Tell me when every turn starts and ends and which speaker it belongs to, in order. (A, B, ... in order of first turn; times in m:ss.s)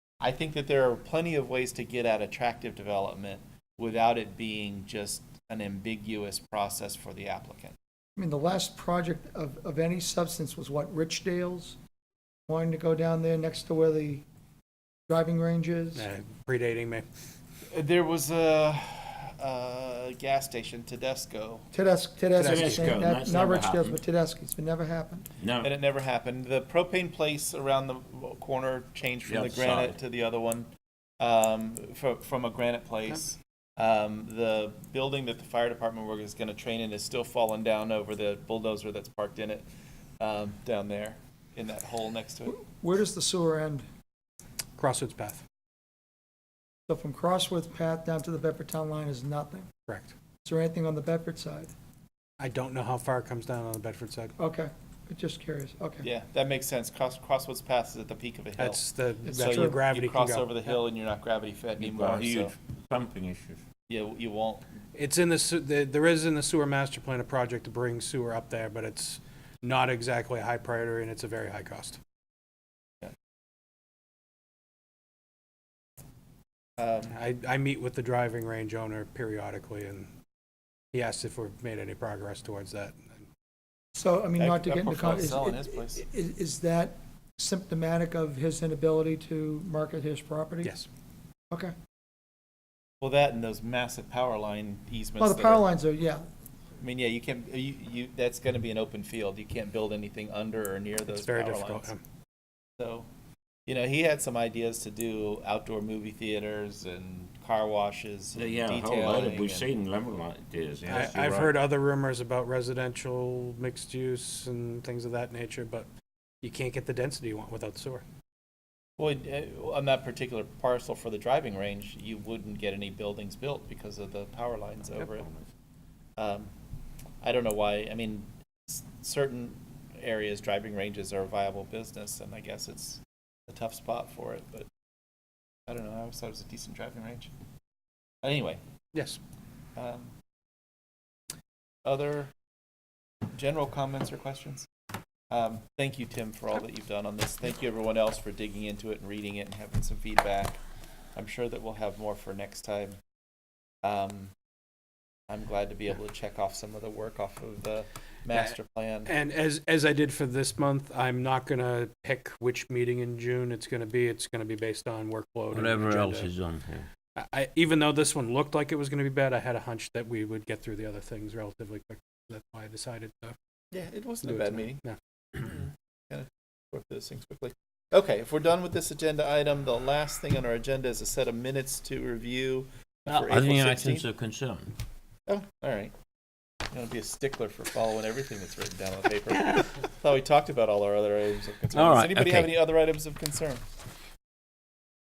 0:00.2-0:07.8 A
0:08.2-0:11.8 B
0:12.5-0:14.2 B
0:15.1-0:16.1 B
0:16.0-0:17.0 C
0:17.7-0:21.7 A
0:21.7-0:25.3 B
0:22.4-0:23.0 C
0:22.4-0:24.0 D
0:25.4-0:25.7 D
0:25.6-0:30.7 A
0:29.3-0:30.0 D
0:31.2-0:39.7 A
0:40.2-0:42.6 A
0:42.5-0:43.8 B
0:44.8-0:45.4 C
0:46.9-0:49.7 B
0:49.9-0:50.1 C
0:50.4-0:51.7 B
0:52.4-0:54.3 C
0:54.4-0:56.1 B
0:56.0-0:58.8 A
0:58.6-1:00.8 C
0:59.2-0:59.8 B
0:59.4-1:02.5 A
1:01.8-1:03.6 D
1:03.9-1:04.6 A
1:05.0-1:12.0 C
1:16.8-1:17.2 A
1:17.1-1:20.1 C
1:20.9-1:23.2 C
1:24.0-1:30.7 B
1:24.4-1:26.0 A
1:33.0-1:35.7 A
1:35.2-1:36.2 B
1:36.8-1:41.9 A
1:41.1-1:42.0 C
1:42.8-1:43.1 A
1:43.7-1:49.7 A
1:48.4-1:51.6 D
1:50.9-1:55.9 C
1:50.9-1:51.2 A
1:56.4-1:58.0 C
1:59.0-2:05.3 A
2:06.2-2:06.5 A
2:07.2-2:14.7 A
2:15.7-2:17.3 A
2:18.2-2:18.6 A
2:18.9-2:19.2 C
2:19.8-2:20.1 A
2:21.8-2:22.3 A
2:23.3-2:24.7 A
2:25.3-2:30.6 A
2:31.2-2:33.0 A
2:33.8-2:34.3 A
2:35.3-2:39.1 A
2:39.1-2:46.3 C
2:45.5-2:46.9 D
2:47.2-2:53.4 C
2:53.7-2:54.8 A
2:54.3-2:55.0 C
2:55.4-3:04.1 A
3:03.1-3:04.7 D
3:05.3-3:05.9 A
3:06.7-3:13.6 A
3:11.7-3:12.6 D